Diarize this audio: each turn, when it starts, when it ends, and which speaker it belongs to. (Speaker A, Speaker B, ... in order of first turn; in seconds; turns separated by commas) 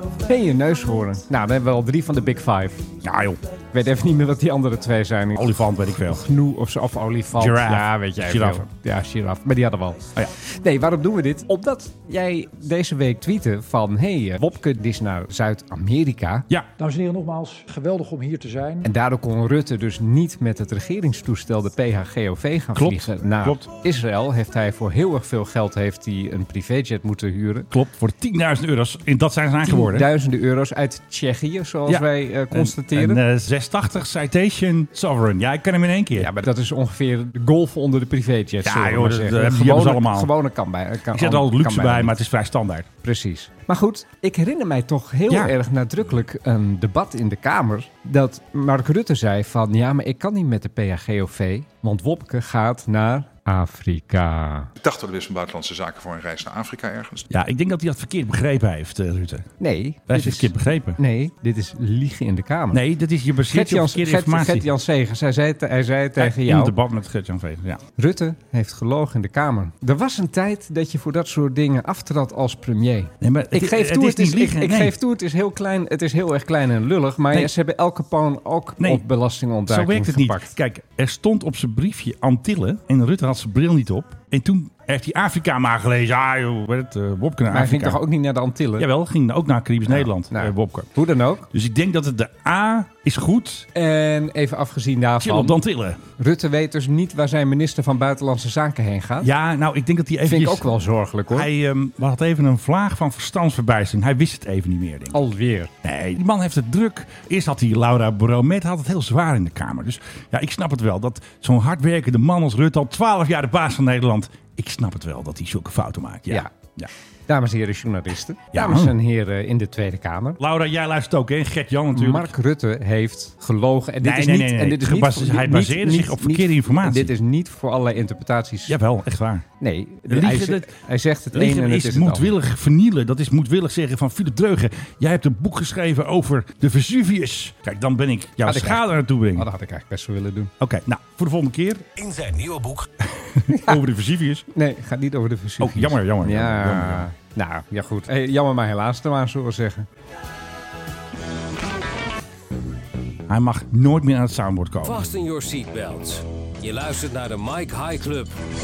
Speaker A: 0.2-2.9, Speaker B: 3.0-3.4, Speaker A: 3.7-16.5, Speaker B: 5.3-6.2, Speaker B: 7.3-8.7, Speaker C: 16.8-18.9, Speaker A: 18.8-27.7, Speaker B: 22.7-23.7, Speaker B: 27.7-30.1, Speaker A: 29.6-33.2, Speaker B: 31.9-36.4, Speaker A: 36.1-42.2, Speaker B: 38.6-40.3, Speaker B: 41.1-42.9, Speaker A: 43.0-54.7, Speaker B: 45.3-45.5, Speaker D: 54.8-57.3, Speaker B: 57.3-59.5, Speaker A: 59.6-62.8, Speaker B: 60.1-61.0, Speaker B: 62.7-64.7, Speaker A: 63.5-66.7, Speaker B: 66.2-67.8, Speaker A: 68.0-80.5, Speaker B: 73.2-74.9, Speaker B: 78.8-79.0, Speaker B: 79.7-88.0, Speaker A: 87.5-88.9, Speaker B: 88.8-90.9, Speaker A: 89.9-91.5, Speaker B: 91.5-93.7, Speaker A: 93.7-95.6, Speaker B: 95.2-96.0, Speaker A: 96.2-99.3, Speaker B: 99.2-100.7, Speaker A: 100.2-101.5, Speaker B: 101.3-105.2, Speaker A: 105.1-105.7, Speaker B: 105.8-116.9, Speaker A: 117.3-120.4, Speaker B: 118.5-118.9, Speaker B: 120.4-122.3, Speaker A: 121.9-128.8, Speaker B: 124.0-127.1, Speaker B: 128.7-129.4, Speaker A: 129.6-132.3, Speaker B: 130.1-130.8, Speaker B: 131.3-139.5, Speaker A: 138.4-140.5, Speaker B: 140.6-141.8, Speaker E: 142.0-142.9, Speaker B: 143.1-144.5, Speaker A: 143.5-143.8, Speaker A: 144.5-149.9, Speaker B: 145.6-147.1, Speaker B: 153.3-155.0, Speaker E: 154.8-158.3